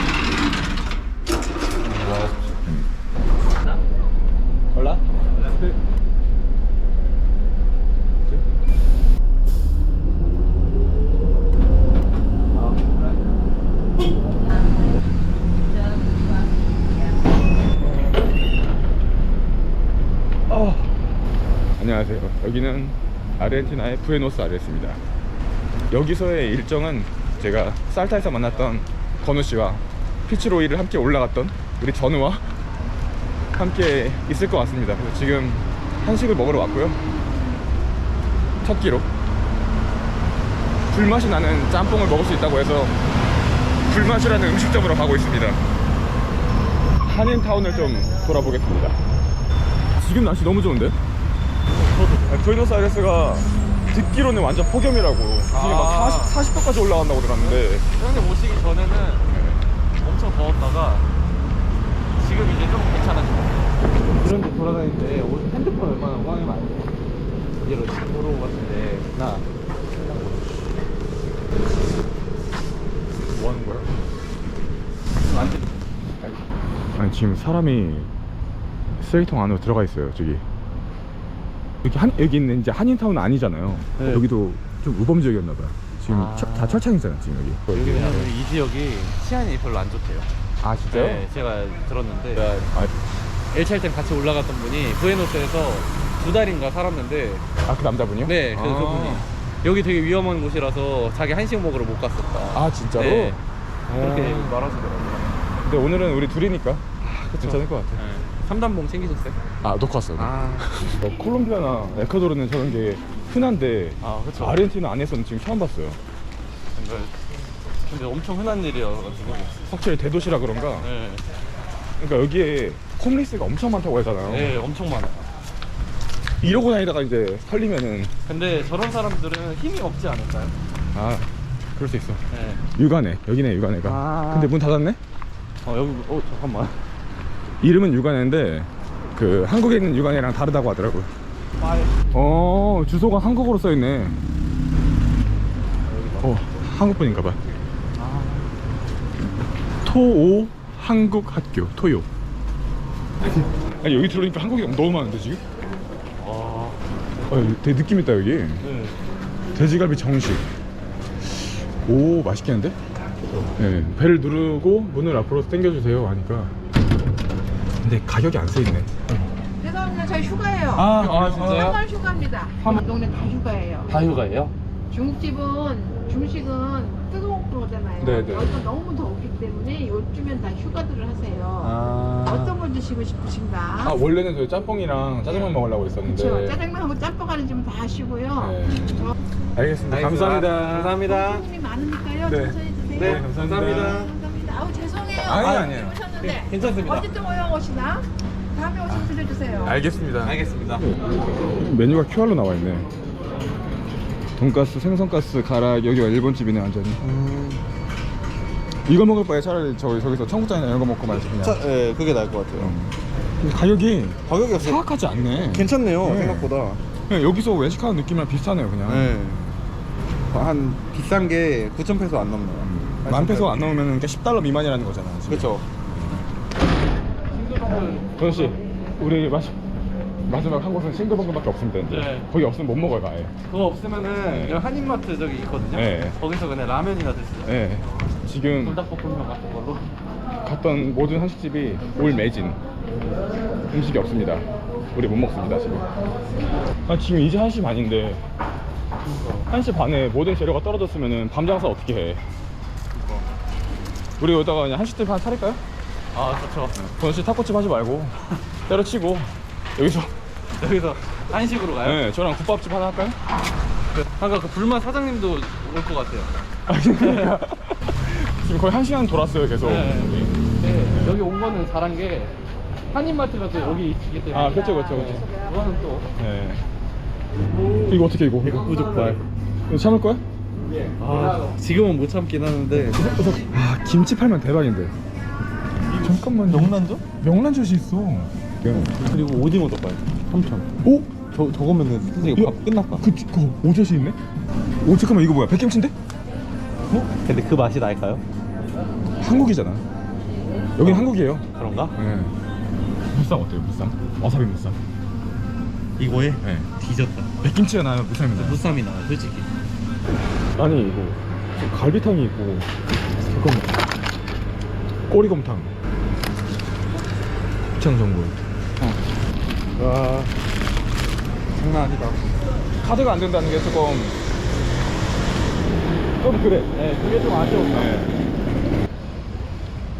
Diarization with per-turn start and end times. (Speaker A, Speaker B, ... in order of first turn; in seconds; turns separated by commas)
Speaker A: 1.8-2.6, Speaker B: 4.7-5.0, Speaker C: 12.6-13.0, Speaker B: 20.5-20.9, Speaker B: 21.8-25.0, Speaker B: 25.9-32.5, Speaker B: 33.5-37.0, Speaker B: 38.6-39.1, Speaker B: 40.9-43.0, Speaker B: 43.9-45.6, Speaker B: 47.0-49.0, Speaker B: 50.0-51.0, Speaker C: 51.7-52.5, Speaker B: 52.3-57.9, Speaker C: 55.5-56.4, Speaker C: 57.4-59.3, Speaker B: 59.3-59.6, Speaker C: 60.0-61.1, Speaker C: 62.2-66.9, Speaker C: 67.6-70.6, Speaker B: 73.3-73.9, Speaker C: 75.2-75.7, Speaker B: 77.0-78.1, Speaker B: 79.0-80.5, Speaker B: 81.8-88.3, Speaker C: 84.0-84.2, Speaker C: 86.1-86.9, Speaker C: 87.7-90.3, Speaker B: 90.6-91.3, Speaker C: 90.9-92.7, Speaker B: 92.3-92.9, Speaker C: 93.5-97.5, Speaker B: 97.7-99.3, Speaker C: 98.2-105.3, Speaker B: 102.5-103.4, Speaker B: 103.9-104.6, Speaker B: 105.6-106.8, Speaker C: 107.0-109.4, Speaker B: 107.4-108.0, Speaker B: 109.6-116.0, Speaker C: 110.2-110.8, Speaker C: 114.0-114.6, Speaker C: 116.8-117.2, Speaker C: 117.8-119.6, Speaker B: 119.6-120.9, Speaker C: 120.8-121.3, Speaker B: 122.0-124.5, Speaker C: 124.3-125.3, Speaker B: 126.4-128.1, Speaker C: 128.3-130.6, Speaker B: 130.9-135.0, Speaker C: 132.3-132.7, Speaker C: 133.8-134.5, Speaker C: 135.6-136.9, Speaker B: 137.6-141.1, Speaker C: 141.6-142.1, Speaker B: 142.1-144.2, Speaker C: 145.9-146.4, Speaker B: 146.2-147.4, Speaker C: 148.0-148.5, Speaker B: 149.8-152.1, Speaker B: 153.8-155.4, Speaker C: 156.2-156.8, Speaker B: 157.3-158.7, Speaker C: 158.6-159.0, Speaker B: 159.5-160.5, Speaker B: 161.2-162.8, Speaker B: 163.6-166.6, Speaker B: 167.8-169.1, Speaker D: 169.6-173.9, Speaker C: 170.7-171.8, Speaker B: 170.8-171.8, Speaker C: 173.9-174.5, Speaker D: 174.9-184.0, Speaker B: 178.0-178.5, Speaker A: 181.6-182.6, Speaker B: 183.8-186.6, Speaker D: 186.0-189.1, Speaker B: 188.4-191.0, Speaker A: 189.9-191.4, Speaker C: 189.9-191.4, Speaker D: 191.0-199.8, Speaker B: 192.2-194.0, Speaker C: 193.0-194.1, Speaker A: 193.0-194.1, Speaker B: 195.2-196.0, Speaker C: 196.2-197.1, Speaker B: 198.9-200.4, Speaker A: 200.2-200.9, Speaker C: 200.3-200.6, Speaker B: 201.4-202.9, Speaker B: 204.4-207.0, Speaker A: 207.0-207.6, Speaker B: 208.9-211.6, Speaker A: 211.1-212.8, Speaker B: 212.6-219.2, Speaker A: 214.3-214.8, Speaker A: 215.5-216.8, Speaker A: 218.8-219.4, Speaker A: 220.3-223.7, Speaker B: 222.6-225.6, Speaker A: 225.3-225.6, Speaker C: 227.3-228.6, Speaker B: 228.2-229.6, Speaker B: 230.3-233.3, Speaker C: 231.9-232.3, Speaker C: 233.5-237.7, Speaker B: 234.3-234.6, Speaker B: 235.7-236.2, Speaker B: 237.4-238.8, Speaker C: 238.5-239.9, Speaker B: 240.4-242.6, Speaker B: 243.7-245.9, Speaker B: 246.9-248.2, Speaker C: 249.0-249.5, Speaker B: 249.5-252.2, Speaker B: 254.2-255.6, Speaker C: 256.1-256.8, Speaker B: 256.8-260.1, Speaker C: 260.6-262.0, Speaker B: 261.8-263.2, Speaker C: 263.9-266.3, Speaker B: 266.7-271.2, Speaker C: 269.6-272.4, Speaker C: 272.9-276.1, Speaker B: 274.3-275.3, Speaker B: 276.2-276.6, Speaker C: 277.6-279.2, Speaker B: 277.9-278.7, Speaker A: 278.4-279.2, Speaker B: 279.7-280.2, Speaker A: 280.7-283.0, Speaker C: 281.0-283.1, Speaker B: 282.7-284.9, Speaker A: 285.9-287.0, Speaker B: 286.0-289.0, Speaker A: 288.7-290.7, Speaker B: 290.8-291.1, Speaker A: 291.3-293.1, Speaker B: 292.3-294.2, Speaker B: 294.8-295.9, Speaker A: 296.9-298.2, Speaker B: 299.2-299.9, Speaker B: 300.8-302.4, Speaker A: 300.8-302.0, Speaker B: 303.1-304.8, Speaker A: 306.0-307.3, Speaker B: 306.4-306.7, Speaker B: 307.4-308.6, Speaker A: 308.4-309.5, Speaker B: 310.6-312.7, Speaker B: 313.2-313.9, Speaker B: 315.1-315.7, Speaker B: 317.8-319.0, Speaker A: 319.8-320.3, Speaker A: 321.5-322.2, Speaker B: 322.8-324.2, Speaker B: 326.2-326.7, Speaker C: 326.7-328.0, Speaker B: 327.7-328.1